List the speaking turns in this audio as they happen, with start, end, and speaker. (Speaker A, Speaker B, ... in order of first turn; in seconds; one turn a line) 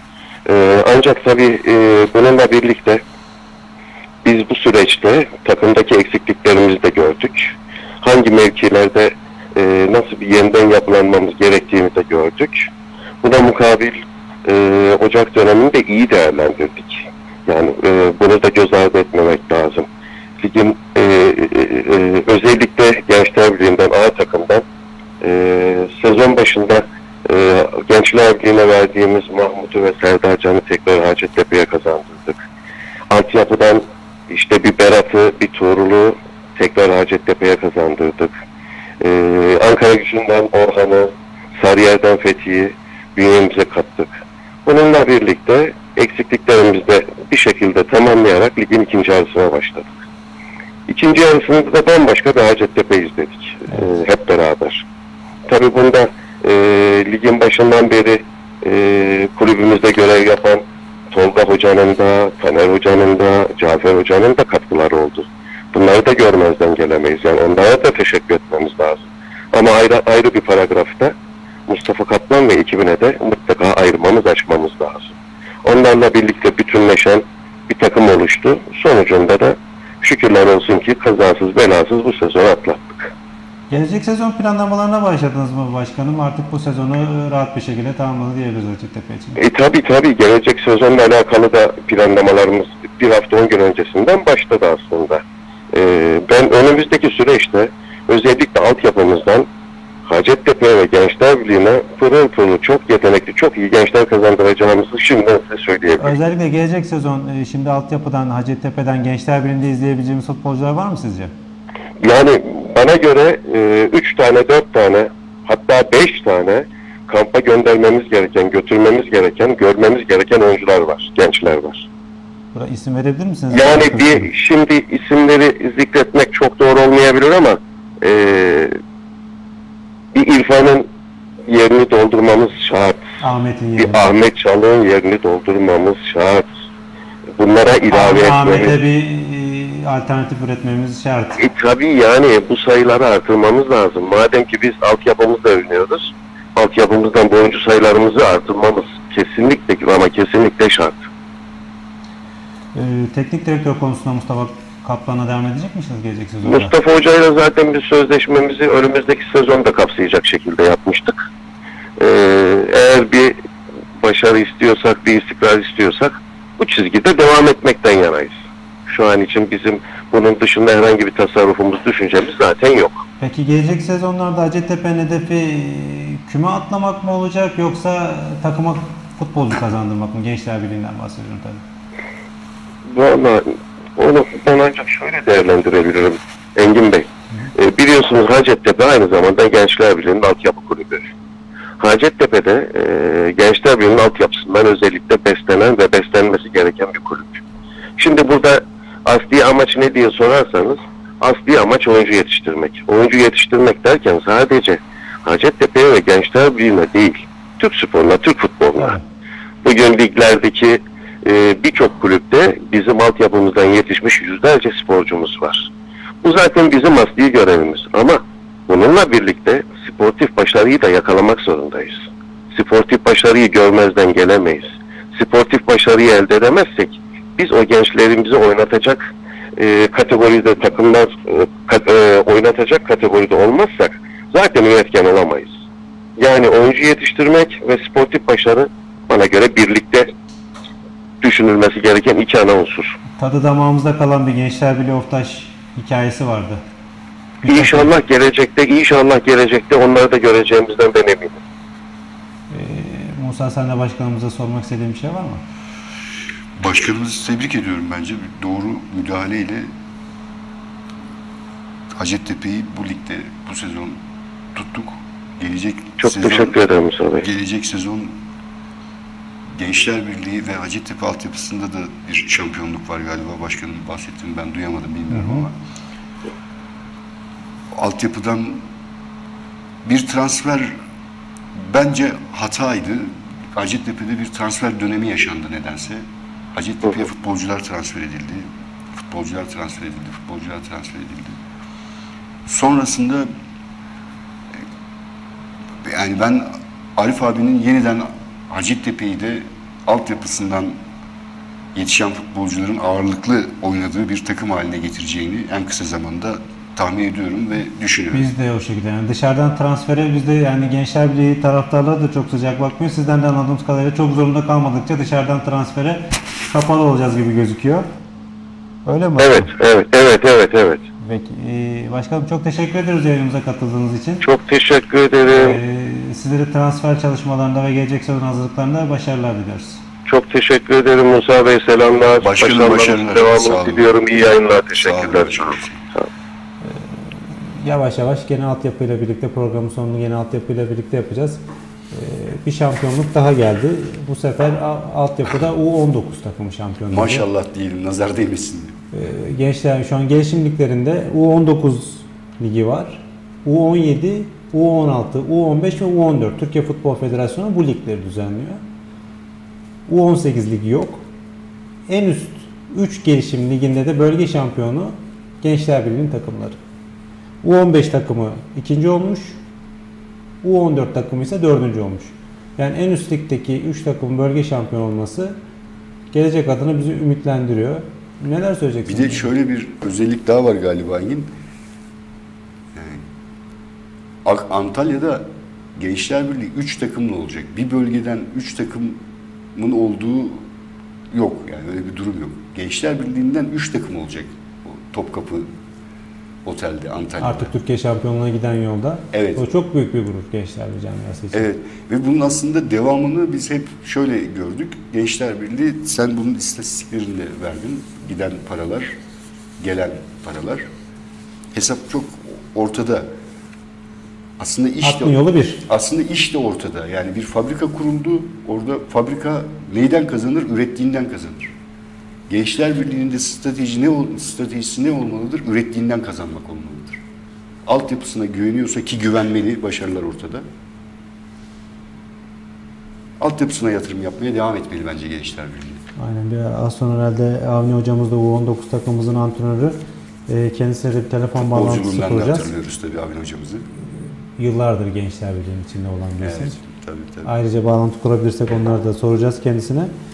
Speaker A: 0.5-3.0
Speaker A: 4.2-12.7
Speaker A: 13.2-19.9
Speaker A: 20.4-24.6
Speaker A: 25.2-32.4
Speaker A: 33.1-38.3
Speaker A: 39.0-44.1
Speaker A: 44.6-49.9
Speaker A: 50.9-54.8
Speaker A: 55.5-71.1
Speaker A: 71.7-75.1
Speaker A: 75.6-83.1
Speaker B: 83.7-89.4
Speaker A: 89.3-99.5
Speaker A: 100.0-106.1
Speaker B: 106.0-111.3
Speaker A: 112.0-121.8
Speaker B: 122.5-124.3
Speaker A: 123.5-128.8
Speaker A: 130.1-130.9
Speaker A: 131.5-133.0
Speaker B: 133.2-134.1
Speaker A: 133.8-136.5
Speaker A: 137.3-138.8
Speaker B: 137.8-141.4
Speaker A: 141.4-151.0
Speaker B: 152.7-156.7
Speaker A: 156.4-161.2
Speaker A: 162.0-163.4
Speaker A: 164.0-168.3
Speaker A: 168.9-173.0
Speaker B: 173.2-181.6
Speaker A: 182.8-191.1
Speaker A: 191.8-197.4
Speaker A: 198.0-209.0
Speaker A: 209.6-215.7
Speaker A: 216.2-235.5
Speaker A: 236.2-240.1
Speaker A: 241.2-242.9
Speaker B: 243.2-246.6
Speaker B: 247.4-247.9
Speaker A: 247.4-251.4
Speaker B: 252.5-255.4
Speaker C: 256.6-259.7
Speaker C: 261.9-264.0
Speaker C: 264.5-266.5
Speaker A: 266.0-267.3
Speaker C: 267.2-268.2
Speaker C: 269.5-275.6
Speaker B: 275.1-275.5
Speaker C: 277.7-278.6
Speaker C: 279.8-280.8
Speaker C: 281.5-291.4
Speaker C: 292.4-293.3
Speaker C: 295.8-300.8
Speaker C: 301.7-308.3
Speaker B: 308.1-317.9
Speaker B: 318.9-319.5
Speaker A: 319.2-320.8
Speaker B: 321.0-324.2
Speaker A: 324.2-325.6
Speaker B: 325.3-329.8
Speaker A: 330.1-336.1
Speaker C: 332.2-333.9
Speaker C: 334.8-335.8
Speaker B: 336.6-347.2
Speaker C: 346.9-348.8
Speaker B: 348.9-358.6
Speaker B: 359.9-361.0
Speaker B: 361.9-366.6
Speaker B: 367.4-369.4
Speaker B: 370.4-375.4
Speaker B: 376.1-379.3
Speaker C: 378.9-381.3
Speaker C: 382.7-383.0
Speaker C: 384.2-389.0
Speaker C: 389.5-390.4
Speaker C: 391.1-395.5
Speaker C: 396.4-397.5
Speaker B: 397.2-401.4
Speaker C: 399.1-399.4
Speaker C: 401.3-408.9
Speaker C: 409.6-410.6
Speaker C: 411.5-413.1
Speaker C: 414.4-421.5
Speaker B: 414.8-415.6
Speaker C: 422.3-427.0
Speaker C: 427.6-430.4
Speaker C: 433.2-435.8
Speaker B: 436.0-439.8
Speaker B: 440.3-442.5
Speaker C: 441.4-443.6
Speaker B: 444.4-446.6
Speaker C: 446.2-447.3
Speaker B: 447.2-449.9